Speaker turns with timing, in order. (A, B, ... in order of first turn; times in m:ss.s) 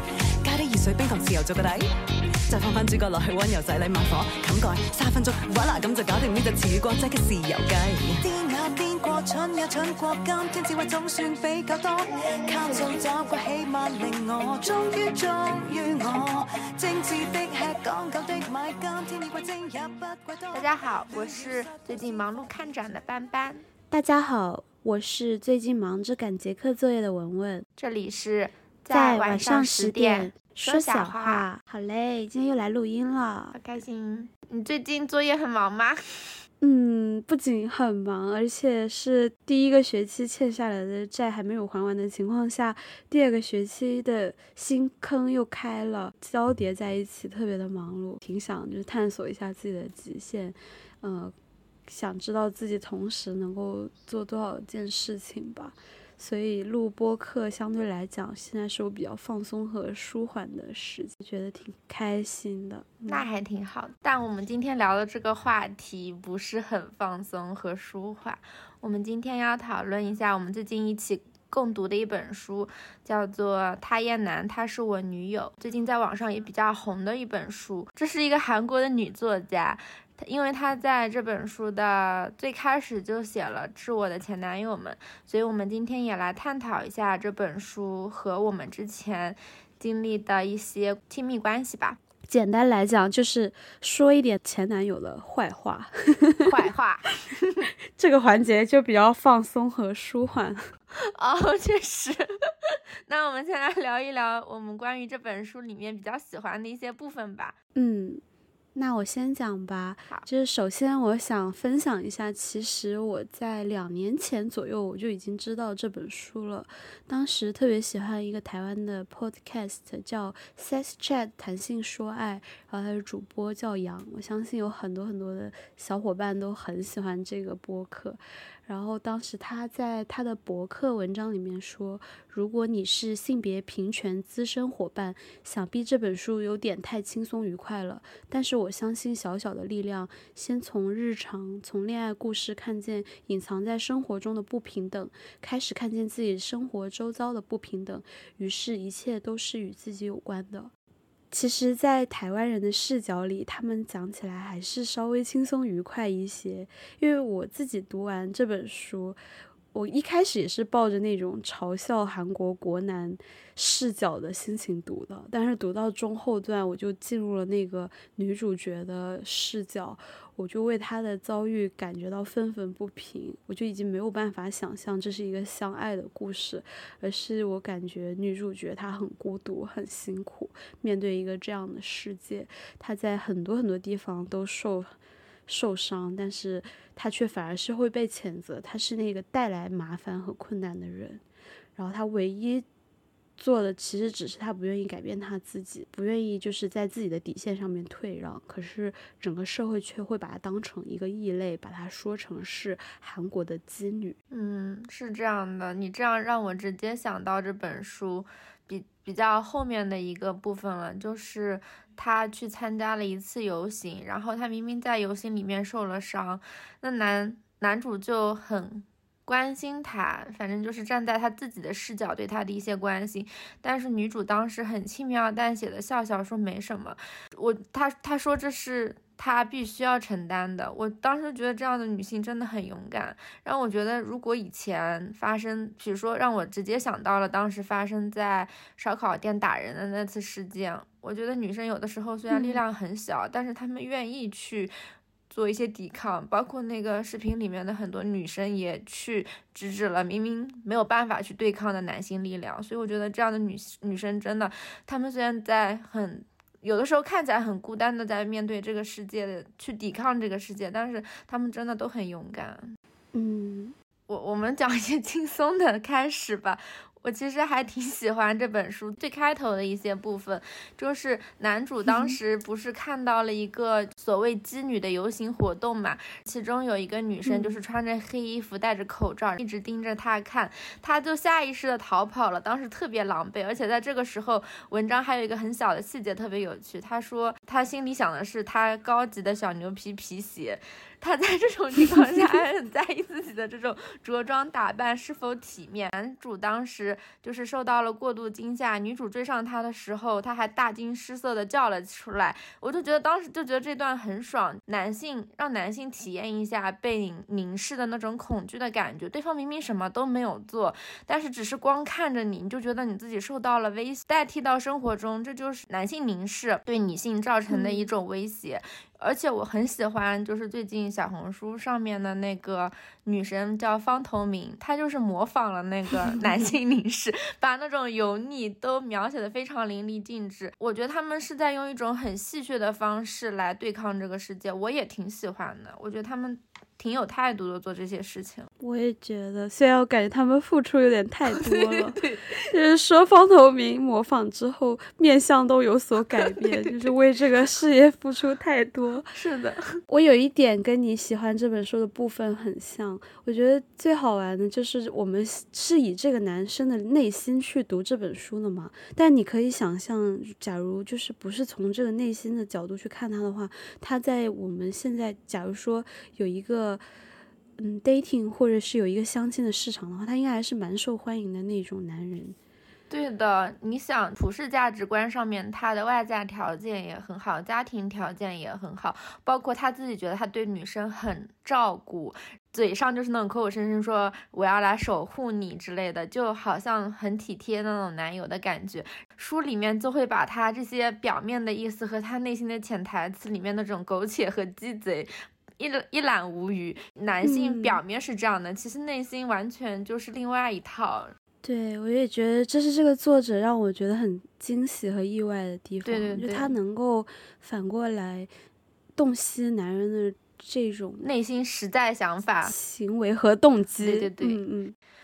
0:00.4-0:01.9 A
0:02.5-0:22.9 A
0:20.5-0:23.7 B
0:23.9-0:27.7 C
0:27.8-0:31.5 B
0:28.9-0:33.6 C
0:33.5-0:36.3 B
0:36.6-0:51.3 C
0:51.9-1:03.3 C
1:03.1-1:32.0 B
1:32.3-1:36.5 C
1:36.4-1:37.7 B
1:38.0-1:40.6 C
1:41.1-1:47.6 B
1:47.8-1:48.2 C
1:48.8-2:30.7 C
2:31.3-2:39.2 C
2:39.7-3:05.0 C
3:05.5-3:11.2 C
3:11.8-3:12.7 C
3:13.4-3:24.2 C
3:24.3-4:04.7 B
4:02.3-4:02.6 C
4:05.3-4:22.8 B
4:23.1-4:23.8 C
4:24.1-5:38.5 B
4:31.9-4:32.2 C
4:37.2-4:37.6 C
5:17.5-5:17.9 C
5:38.6-5:49.1 C
5:41.3-5:42.5 B
5:46.1-5:46.9 B
5:49.1-5:49.8 B
5:49.9-6:06.8 C
6:07.6-6:12.4 C
6:12.9-6:41.1 B
6:37.2-6:37.8 C
6:41.4-6:48.3 C
6:45.8-6:46.5 B
6:49.0-6:51.1 C
6:51.0-6:52.5 B
6:52.4-6:54.8 C
6:53.8-6:54.4 B